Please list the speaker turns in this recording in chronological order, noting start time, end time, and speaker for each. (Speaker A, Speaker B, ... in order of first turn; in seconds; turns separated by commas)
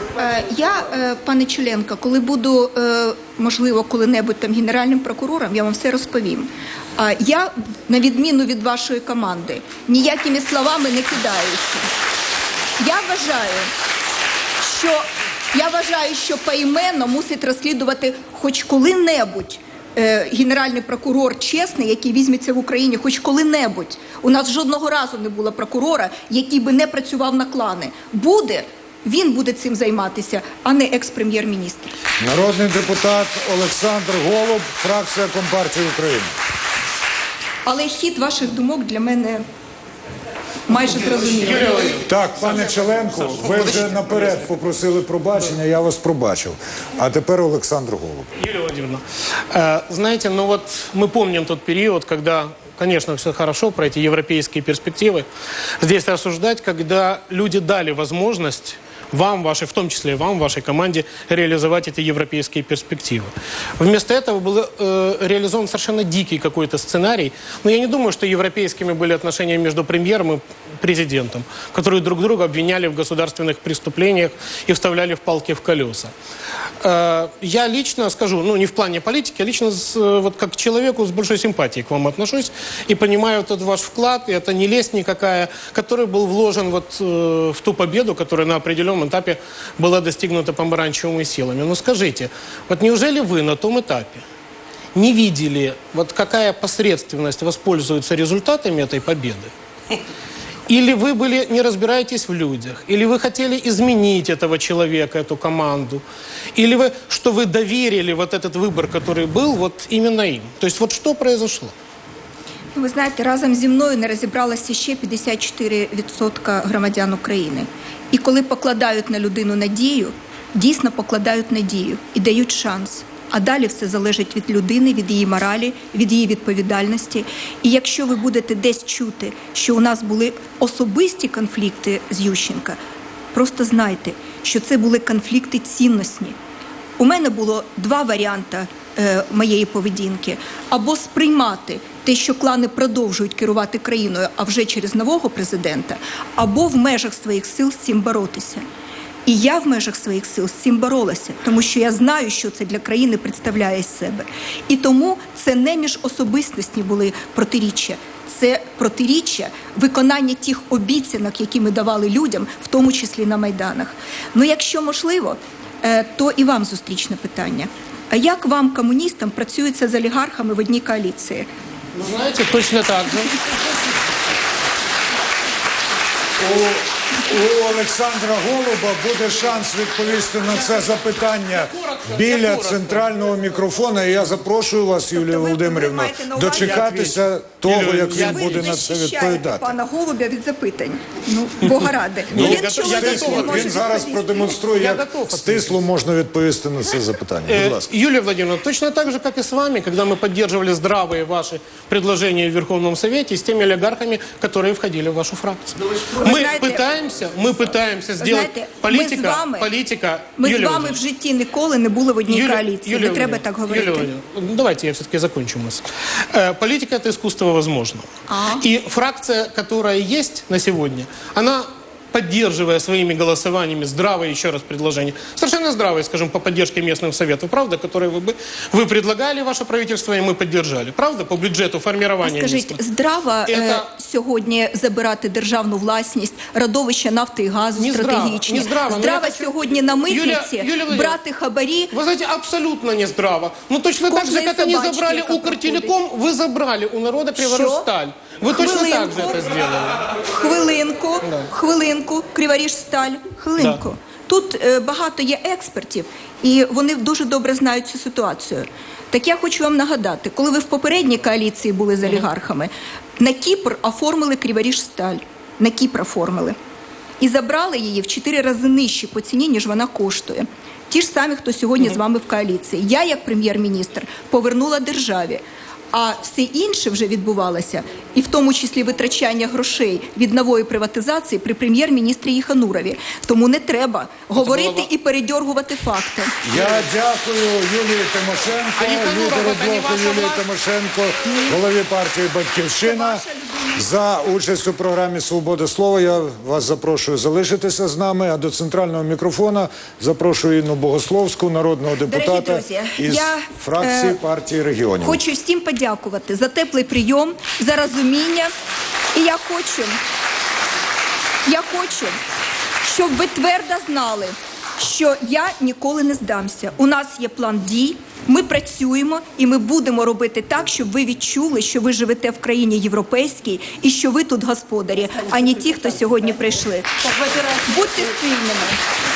Speaker A: 0.2-11.9, Speaker A: 12.8-13.7, Speaker A: 14.6-32.0, Speaker B: 32.2-36.4, Speaker A: 37.6-39.4, Speaker A: 40.7-42.0, Speaker C: 41.3-44.5, Speaker B: 42.0-48.3, Speaker C: 48.4-55.3, Speaker C: 55.8-76.1, Speaker C: 76.8-94.2, Speaker C: 94.9-99.5, Speaker C: 100.7-106.0, Speaker C: 106.5-111.7, Speaker A: 112.8-132.8, Speaker A: 133.3-136.3, Speaker A: 137.0-148.6, Speaker A: 149.2-171.5, Speaker C: 171.9-173.4, Speaker B: 176.4-189.7, Speaker C: 181.5-183.1, Speaker A: 185.1-186.9, Speaker C: 186.6-188.7, Speaker A: 188.1-194.6, Speaker C: 192.3-193.9, Speaker B: 192.3-197.9, Speaker C: 194.7-195.8, Speaker C: 197.5-211.0, Speaker A: 206.1-206.8, Speaker A: 208.2-209.7, Speaker A: 210.4-214.1, Speaker C: 212.3-232.8, Speaker A: 218.3-218.7, Speaker A: 232.2-241.9, Speaker C: 233.5-233.9, Speaker C: 237.8-241.2, Speaker C: 241.9-250.1, Speaker A: 244.1-245.9, Speaker A: 247.4-247.9, Speaker A: 248.5-249.4, Speaker A: 250.2-266.6, Speaker A: 267.2-275.4, Speaker A: 275.9-286.4, Speaker C: 284.3-284.9, Speaker B: 286.4-293.2, Speaker C: 288.8-290.4, Speaker C: 291.2-291.6, Speaker A: 292.8-293.9, Speaker B: 293.8-305.2, Speaker A: 302.0-304.2, Speaker A: 305.0-308.5, Speaker A: 309.1-310.0, Speaker A: 311.5-312.2, Speaker A: 312.8-328.8